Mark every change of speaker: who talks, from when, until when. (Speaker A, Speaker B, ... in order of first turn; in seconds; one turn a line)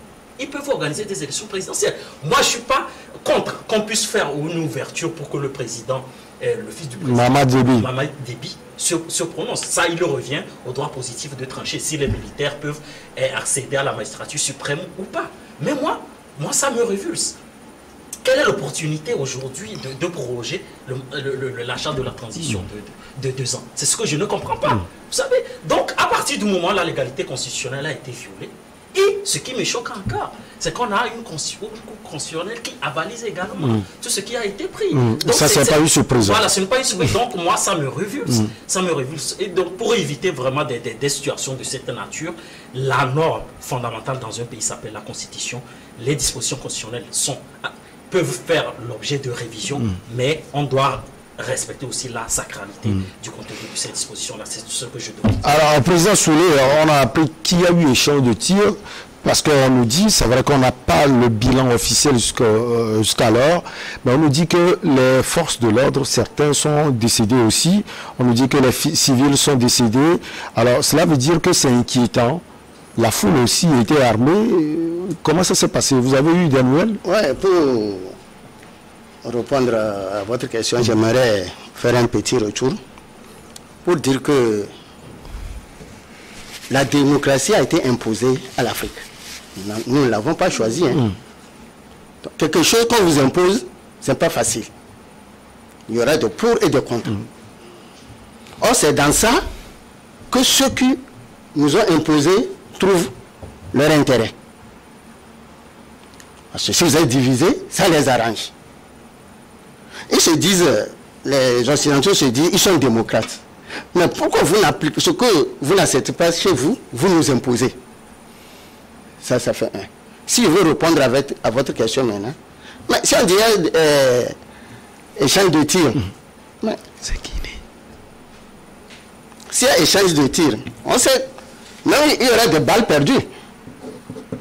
Speaker A: 0.4-17.4
Speaker B: 7.0-7.9
Speaker A: 18.2-55.7
Speaker B: 34.9-36.5
Speaker B: 55.4-72.4
Speaker B: 73.0-77.0
Speaker C: 77.0-78.2
Speaker C: 79.2-82.8
Speaker C: 83.8-84.7
Speaker C: 86.7-89.0
Speaker C: 89.5-91.1
Speaker C: 92.2-94.7
Speaker C: 95.9-97.2
Speaker C: 98.6-99.4
Speaker C: 100.3-101.0
Speaker C: 101.5-103.1
Speaker C: 103.7-104.3
Speaker C: 106.5-108.5
Speaker C: 110.1-113.4
Speaker C: 113.9-117.8
Speaker C: 119.2-122.3
Speaker C: 122.9-124.3
Speaker C: 125.2-126.0
Speaker B: 127.0-127.5
Speaker C: 129.5-131.3
Speaker C: 131.8-133.3